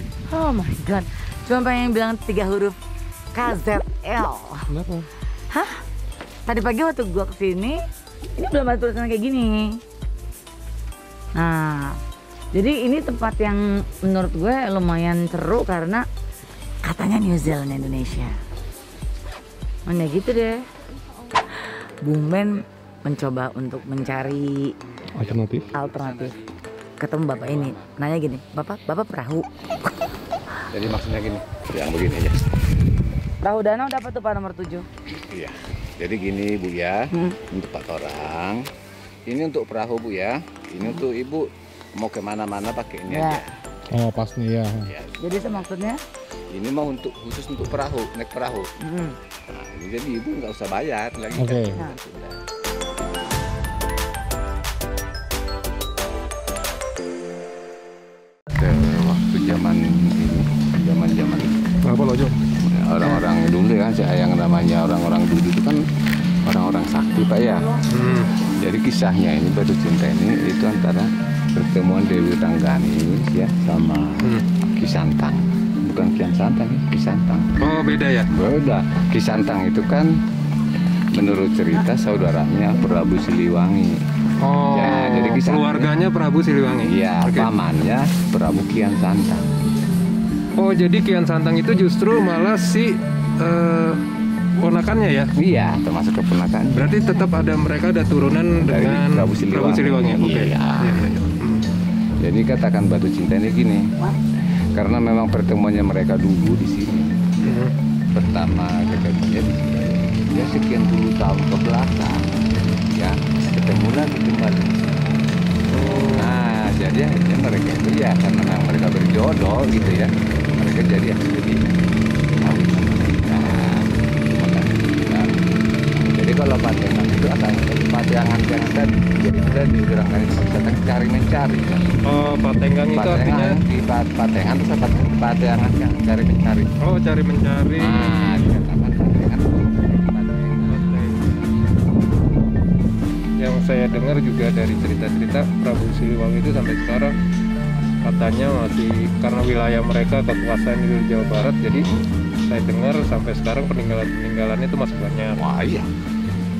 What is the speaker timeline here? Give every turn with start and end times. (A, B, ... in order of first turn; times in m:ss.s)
0:00.3-0:02.8 A
0:03.3-0:04.7 A
0:04.7-0:05.1 B
0:05.5-0:05.8 A
0:06.4-0:07.8 A
0:08.4-0:09.8 A
0:11.4-0:12.0 A
0:12.5-0:16.0 A
0:16.8-0:18.4 A
0:19.9-0:20.6 A
0:22.0-0:24.7 A
0:24.0-0:24.4 C
0:25.0-0:26.6 C
0:25.1-0:25.7 B
0:25.8-0:26.3 A
0:27.0-0:29.5 A
0:27.3-0:28.0 C
0:30.7-0:32.6 C
0:33.4-0:34.9 A
0:35.1-0:38.7 C
0:39.3-0:43.5 C
0:43.1-0:43.4 A
0:43.9-0:44.9 B
0:44.8-0:45.7 C
0:45.2-0:46.0 A
0:46.5-0:48.7 C
0:48.8-0:49.2 A
0:49.5-0:52.4 C
0:51.4-0:51.8 B
0:58.6-1:01.6 C
1:01.9-1:02.4 B
1:02.6-1:05.8 C
1:06.4-1:07.8 C
1:07.9-1:08.3 D
1:08.6-1:17.5 C
1:17.6-1:18.3 D
1:18.3-1:20.2 C
1:21.1-1:24.0 C
1:24.4-1:27.5 D
1:24.7-1:26.0 C
1:26.8-1:29.5 C
1:30.6-1:34.0 D
1:34.6-1:35.3 D
1:35.4-1:36.9 C
1:36.7-1:41.7 D
1:38.6-1:41.0 C
1:42.2-1:44.2 C
1:44.7-1:47.3 C
1:47.4-1:47.7 D
1:48.1-1:55.2 C
1:55.7-1:56.4 D
1:56.1-2:01.8 C
2:02.4-2:12.0 C
2:12.1-2:13.6 D
2:12.9-2:16.7 C
2:16.8-2:18.1 D
2:17.8-2:22.4 C
2:20.7-2:21.2 D
2:23.4-2:27.1 D
2:28.0-2:31.9 D
2:31.7-2:32.1 C
2:32.4-2:35.4 D
2:35.3-2:35.9 C